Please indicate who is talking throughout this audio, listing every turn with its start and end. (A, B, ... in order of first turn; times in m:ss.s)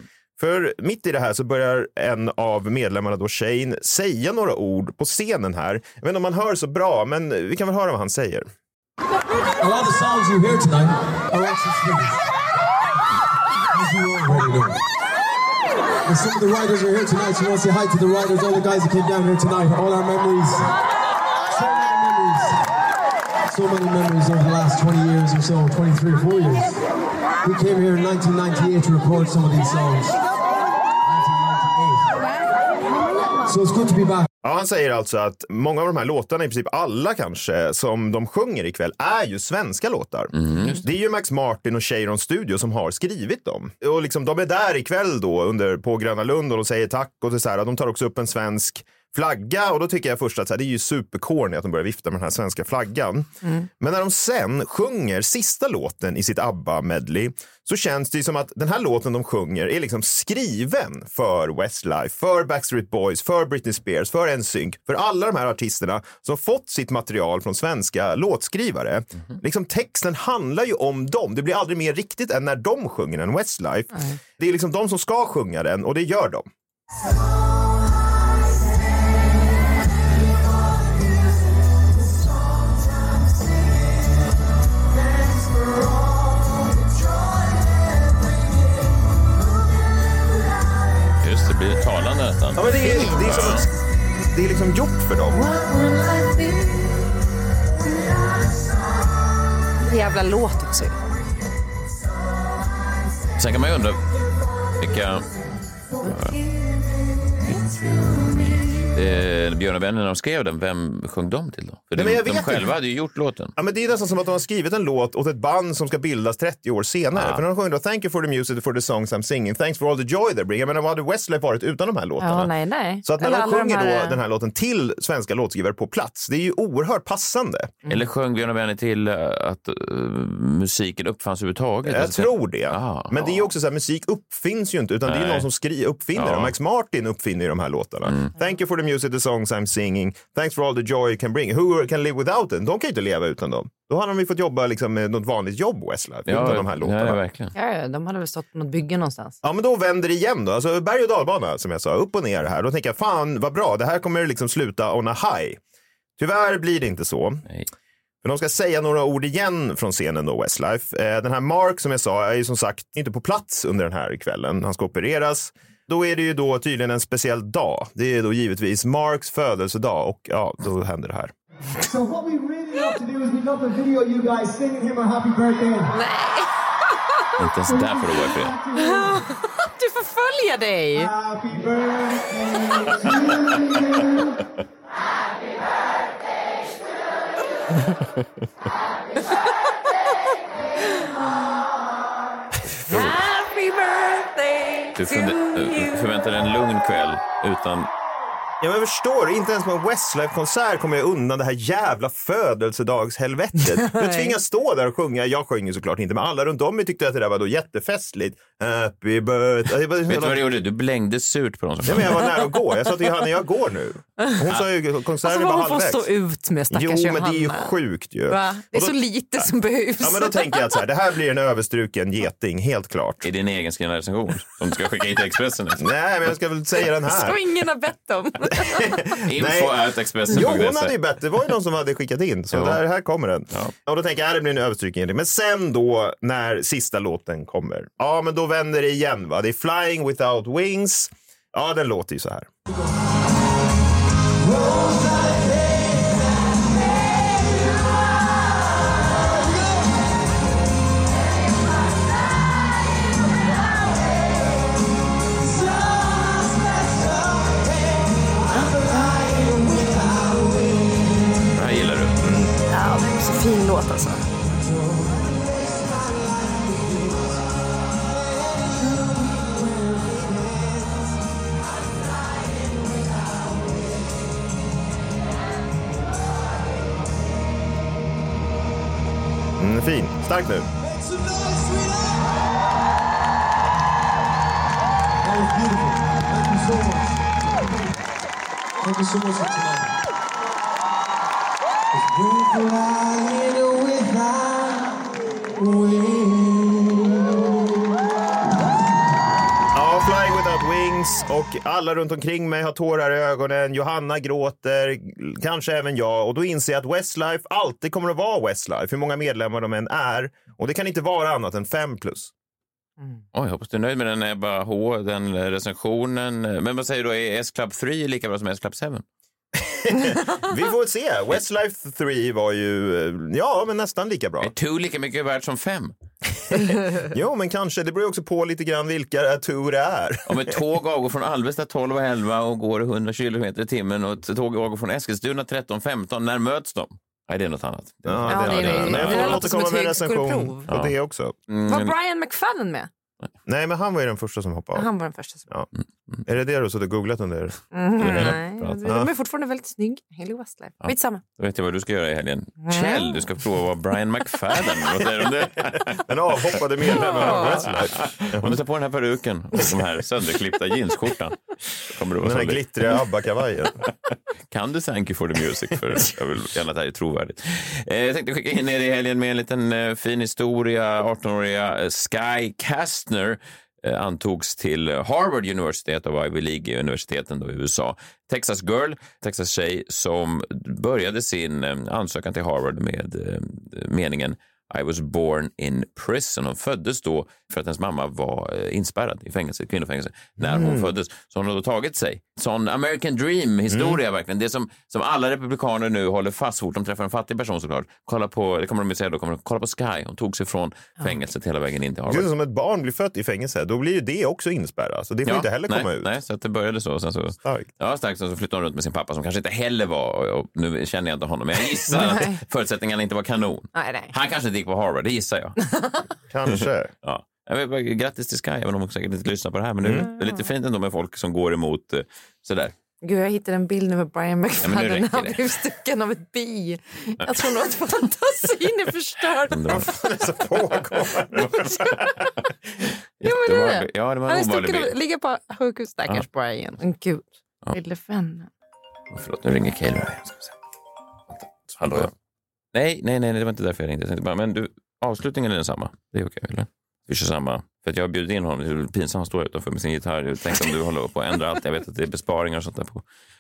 0:00.4-0:08.5 A
0:09.6-0:12.2 B
0:13.7-0:14.8 B
0:16.1-0:20.7 B
0:21.5-0:22.6 B
0:23.5-0:26.8 B
0:27.4-0:30.2 B
0:31.0-0:32.2 B
0:33.5-0:34.2 B
0:34.4-1:16.5 A
0:40.4-0:40.8 C
0:53.4-0:53.7 D
1:13.9-1:14.2 D
1:31.2-1:32.7 C
1:32.6-1:33.7 A
1:32.7-1:33.3 D
1:33.2-1:33.7 C
1:34.3-1:35.4 A
1:35.3-1:36.8 D
1:39.8-1:41.0 D
1:43.4-1:44.0 C
1:44.8-1:45.2 C
1:46.0-1:46.4 C
1:47.5-1:53.5 C
1:52.0-1:52.7 A
1:53.6-2:02.5 A
1:57.2-1:57.4 C
2:02.2-2:04.2 D
2:03.0-2:07.8 A
2:07.9-2:13.4 C
2:11.8-2:27.2 A
2:15.1-2:15.5 C
2:16.2-2:16.5 C
2:18.1-2:18.3 C
2:26.3-2:27.5 C
2:27.6-2:29.4 D
2:29.4-2:35.6 A
2:36.2-2:37.4 A
2:38.2-2:51.3 A
2:51.9-2:55.9 E
2:55.9-2:57.4 D
2:57.4-2:58.6 C
2:58.7-3:01.1 D
3:01.2-3:04.2 E
3:10.8-3:11.1 D
3:12.9-3:13.2 C
3:12.9-3:16.1 D
3:15.0-3:17.9 C
3:18.6-3:30.5 A
3:23.8-3:24.4 D
3:30.1-3:32.3 C
3:31.8-3:36.1 A
3:35.2-3:37.7 D
3:36.7-3:39.0 A
3:38.3-3:40.7 D
3:40.0-3:43.3 A
3:43.2-3:45.8 C
3:45.8-3:47.4 A
3:47.1-3:49.2 D
3:49.2-4:02.5 A
3:49.2-3:50.9 C
3:52.5-3:52.8 C
4:18.5-4:18.8 D
4:21.5-4:22.2 C
4:22.2-4:22.5 A
4:22.7-4:24.3 D
4:39.6-4:40.7 A
4:41.0-4:42.2 B
4:45.3-4:47.1 E
4:45.4-4:45.9 B
4:46.4-4:46.8 B
4:48.8-4:49.8 E
4:49.0-4:49.6 B
4:51.9-4:54.9 E
4:55.6-4:57.2 E
4:59.7-5:12.3 A
5:13.3-5:19.0 C
5:19.6-5:24.5 A
5:24.4-5:25.9 C
5:26.5-5:30.6 A
5:30.3-5:39.4 C
5:38.0-5:41.4 A
5:38.3-5:40.7 D
5:40.7-5:40.9 C
5:41.5-5:41.9 C
5:41.7-5:42.9 D
5:43.5-5:44.9 A
5:44.8-5:45.5 D
5:46.2-5:48.3 A
5:47.7-5:51.2 D
5:48.0-5:48.8 C
5:50.8-6:02.7 C
5:52.6-5:53.2 D
5:55.4-5:58.6 A
5:56.9-5:57.6 D
6:02.2-6:03.8 A
6:04.5-6:42.3 C
6:30.4-6:30.9 A
6:33.7-6:34.0 A
6:42.1-6:46.1 A
6:45.3-6:55.6 C
6:51.9-6:52.4 D
6:53.8-6:54.1 D
6:55.7-6:56.0 D
6:56.3-6:56.9 A
6:56.5-7:02.7 C
6:59.8-7:00.1 A
7:00.0-7:00.4 D
7:03.0-7:09.8 D
7:04.6-7:05.4 C
7:09.5-7:10.7 C
7:09.7-7:12.3 A
7:13.2-7:14.9 C
7:13.2-7:18.5 D
7:19.1-7:20.5 C
7:21.3-7:22.1 C
7:22.7-7:33.0 C